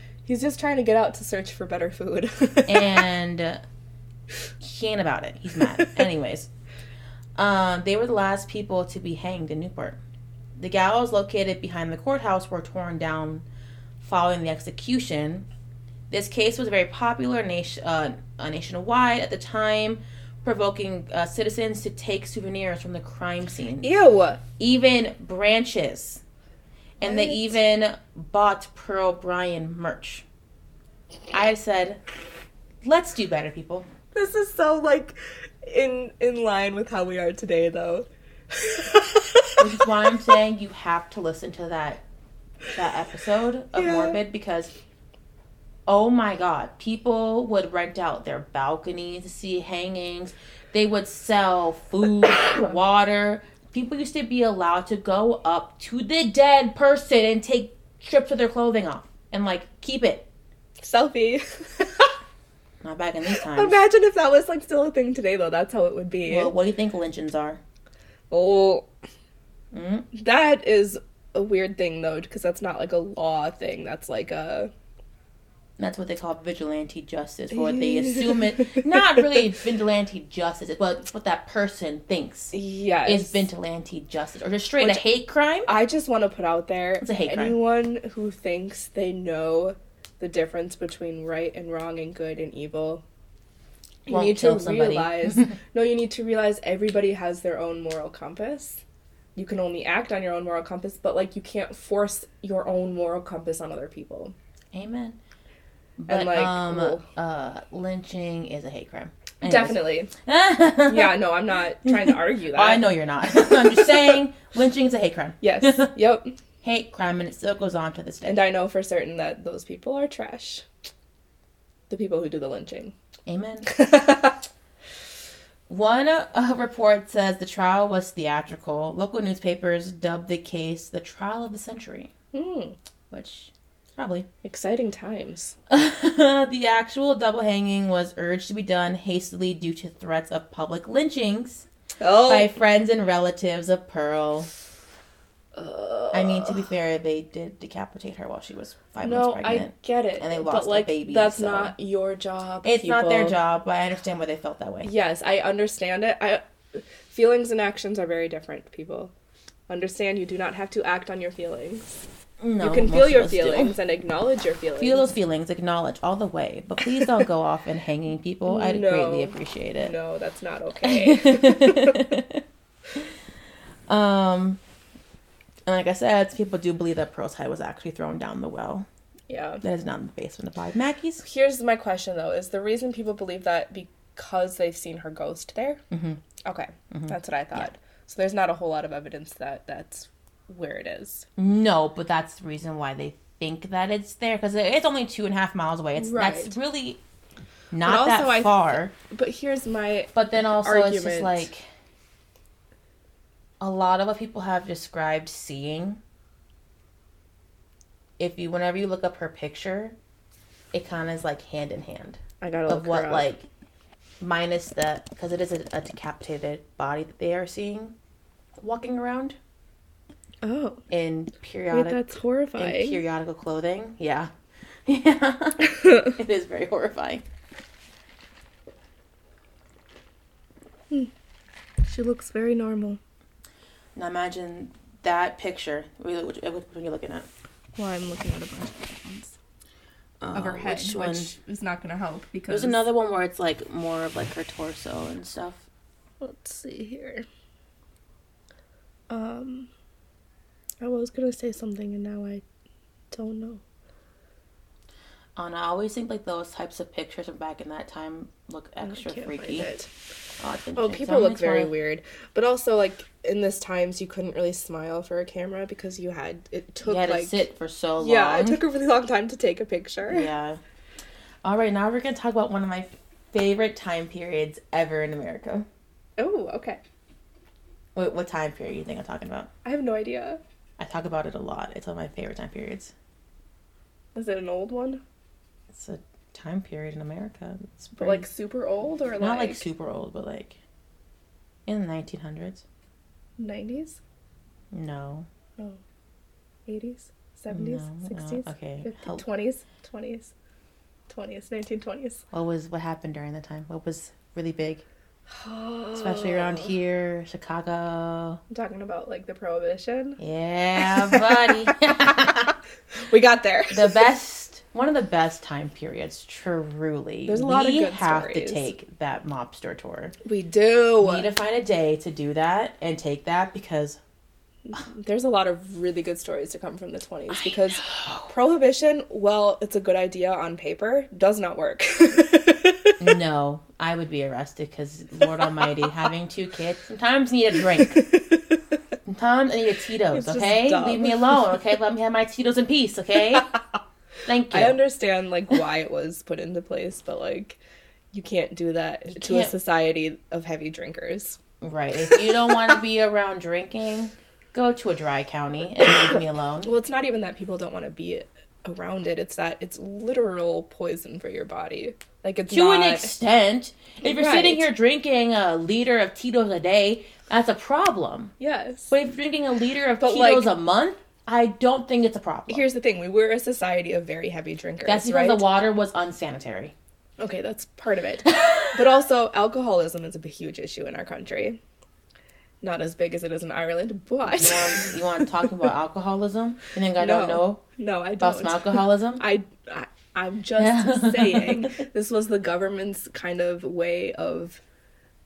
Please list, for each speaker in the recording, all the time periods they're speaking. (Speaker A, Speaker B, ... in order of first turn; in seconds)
Speaker A: 0.2-3.0, 5.6-6.0, 23.8-24.4, 27.0-27.6, 34.1-40.2, 43.7-44.2, 60.8-62.1, 63.3-66.5, 68.3-68.9, 70.1-74.7, 77.5-79.5, 82.5-83.4, 85.7-93.0, 94.1-98.8, 99.3-104.3, 106.1-107.0, 109.4-110.1, 110.8-114.2, 115.4-116.4, 118.2-120.7, 121.9-122.9, 123.7-124.4, 132.3-132.8, 134.4-135.6, 142.0-142.6, 145.5-146.7, 149.0-153.3, 154.8-159.1, 159.7-162.0, 162.6-165.1, 168.4-172.2, 179.3-179.6, 181.2-185.8, 186.4-191.3, 195.9-196.6, 197.8-201.5, 212.4-213.3, 220.4-220.8, 221.7-223.0, 225.6-226.2, 231.8-233.0, 237.8-239.4, 240.3-242.8, 246.2-247.2, 249.1-249.7, 250.8-252.4, 253.1-253.6, 258.8-259.9, 260.8-267.4, 268.0-270.3, 276.2-276.8, 279.6-280.4, 284.1-285.0, 287.9-289.6, 293.4-294.0, 296.7-300.3, 301.1-302.2, 305.3-306.7, 308.5-310.2, 310.8-311.6, 312.9-314.1, 317.2-318.7, 320.2-321.3, 324.6-333.0, 335.4-335.9, 337.5-338.8, 340.1-341.4, 344.5-347.6, 348.1-351.4, 352.0-352.7, 355.8-363.1, 364.0-364.7, 368.4-368.9, 370.0-370.5, 372.5-375.4, 377.2-381.6, 382.6-385.5, 387.0-394.6
Speaker B: 2.7-3.6, 4.6-6.5, 7.4-10.0, 10.6-13.4, 14.0-15.5, 16.1-23.9, 24.6-26.2, 27.0-30.2, 31.3-32.0, 32.8-33.9, 39.6-42.0, 42.7-44.7, 45.9-60.3, 62.8-63.8, 66.2-67.6, 69.7-70.0, 75.8-82.5, 83.0-85.7, 87.0-87.5, 94.1-95.5, 104.7-105.2, 106.0-111.2, 111.8-115.9, 116.6-118.4, 123.3-123.7, 125.7-132.1, 133.1-134.3, 135.7-141.7, 142.2-144.5, 146.1-151.7, 152.6-154.9, 162.4-163.7, 164.8-169.9, 170.8-172.4, 173.9-174.6, 175.7-178.9, 179.6-181.2, 185.9-186.2, 186.9-187.7, 191.4-197.0, 197.7-198.9, 200.1-201.6, 203.6-206.0, 208.2-209.9, 210.7-213.4, 214.2-217.9, 218.6-219.4, 220.9-222.0, 222.6-224.3, 224.8-227.2, 233.9-237.3, 240.2-241.3, 242.5-245.7, 255.3-259.7, 260.4-261.7, 266.8-268.6, 270.1-270.6, 271.4-275.7, 277.9-279.5, 280.8-282.9, 285.7-288.3, 289.2-290.6, 291.7-292.6, 294.7-295.3, 297.5-299.2, 302.3-304.8, 305.9-308.4, 310.2-312.5, 313.7-320.1, 321.0-324.0, 327.3-328.3, 333.0-338.0, 339.1-343.5, 344.2-344.8, 349.1-349.5, 351.6-356.7, 362.5-368.3, 368.9-372.6, 374.8-376.7, 378.4-378.7, 384.2-387.6, 388.2-389.2, 390.6-391.8